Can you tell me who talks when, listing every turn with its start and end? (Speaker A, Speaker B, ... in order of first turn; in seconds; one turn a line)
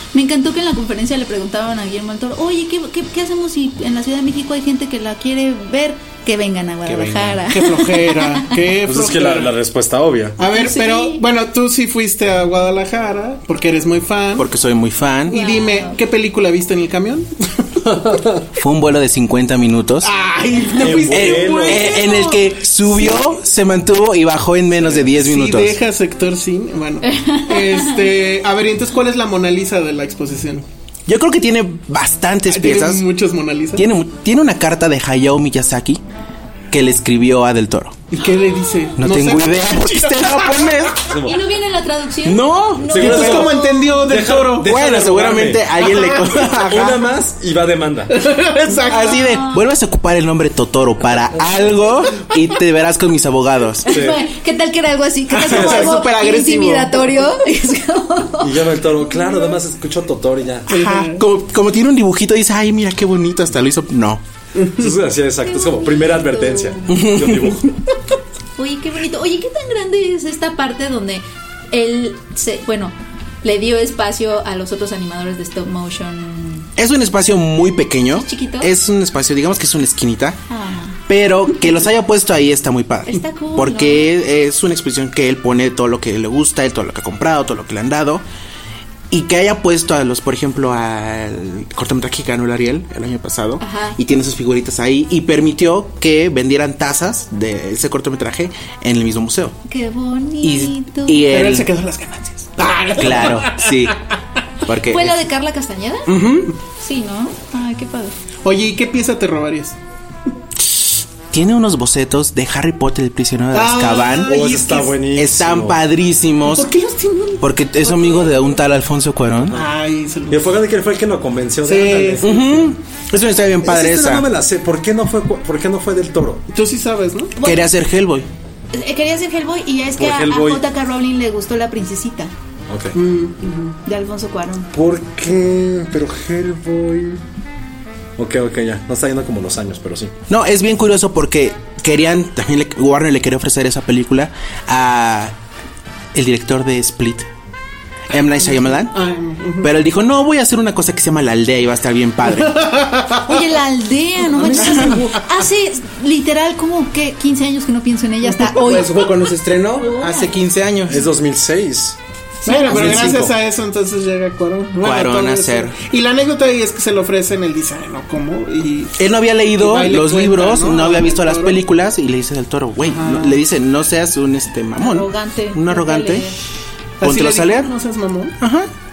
Speaker A: 0.1-8.4
Speaker B: 6.8-7.4
Speaker C: 7.5-9.6
Speaker D: 8.8-10.4
Speaker A: 10.4-11.2
Speaker C: 10.4-14.5
Speaker B: 14.4-15.4
Speaker C: 15.3-17.9
Speaker A: 15.3-16.0
Speaker D: 17.9-18.4
Speaker B: 18.5-20.1
Speaker C: 20.0-22.5
Speaker D: 20.8-22.0
Speaker B: 21.0-25.8
Speaker C: 24.8-30.6
Speaker A: 27.0-28.1
Speaker B: 31.1-33.0
Speaker C: 32.5-33.9
Speaker B: 33.8-36.0
Speaker B: 36.7-38.0
Speaker C: 38.1-41.0
Speaker A: 38.2-38.9
Speaker B: 39.0-41.1
Speaker D: 41.1-41.5
Speaker A: 41.2-44.0
Speaker B: 42.2-43.2
Speaker D: 42.9-48.2
Speaker C: 42.9-44.8
Speaker B: 44.6-46.9
Speaker C: 45.8-46.9
Speaker C: 48.1-49.4
Speaker B: 48.9-54.0
Speaker A: 48.9-49.6
Speaker A: 53.8-58.6
Speaker D: 53.9-54.2
Speaker B: 55.4-57.0
Speaker D: 55.5-55.9
Speaker D: 58.4-60.7
Speaker B: 60.7-64.2
Speaker C: 60.7-61.2
Speaker C: 64.6-64.9
Speaker D: 64.8-67.8
Speaker A: 65.4-67.1
Speaker B: 66.9-67.5
Speaker A: 68.6-76.7
Speaker B: 76.8-80.4
Speaker A: 78.1-78.7
Speaker A: 80.5-81.0
Speaker B: 81.1-88.2
Speaker A: 83.1-84.1
Speaker B: 89.1-99.5
Speaker A: 93.6-94.0
Speaker A: 99.7-101.3
Speaker B: 100.4-101.7
Speaker C: 101.3-103.9
Speaker B: 103.0-104.0
Speaker B: 104.6-105.2
Speaker A: 104.9-106.1
Speaker B: 106.1-106.5
Speaker A: 106.7-108.2
Speaker C: 108.4-109.8
Speaker B: 110.7-114.4
Speaker C: 113.5-115.0
Speaker D: 114.2-115.8
Speaker B: 115.1-116.7
Speaker C: 116.4-118.4
Speaker B: 117.4-119.6
Speaker C: 119.5-120.6
Speaker D: 120.3-122.6
Speaker C: 121.6-122.4
Speaker B: 122.2-124.2
Speaker D: 123.6-126.5
Speaker C: 126.5-127.3
Speaker A: 127.4-127.7
Speaker B: 127.4-128.3
Speaker A: 128.7-132.3
Speaker D: 130.0-130.6
Speaker D: 132.7-133.0
Speaker C: 132.9-133.8
Speaker A: 133.8-134.7
Speaker D: 134.7-137.2
Speaker D: 138.2-140.1
Speaker B: 140.3-145.3
Speaker B: 146.1-147.3
Speaker B: 148.1-148.9
Speaker C: 148.4-149.7
Speaker B: 149.6-152.6
Speaker C: 152.2-153.4
Speaker A: 153.2-159.2
Speaker C: 154.4-155.1
Speaker B: 154.4-155.1
Speaker B: 158.4-161.0
Speaker C: 158.7-159.0
Speaker A: 159.8-160.3
Speaker D: 160.9-162.0
Speaker A: 162.4-162.8
Speaker C: 162.4-171.6
Speaker B: 162.6-163.3
Speaker D: 162.8-163.1
Speaker B: 164.8-165.8
Speaker B: 169.0-176.3
Speaker C: 172.8-173.4
Speaker A: 174.8-176.4
Speaker C: 177.0-178.4
Speaker B: 177.0-177.7
Speaker B: 178.4-178.7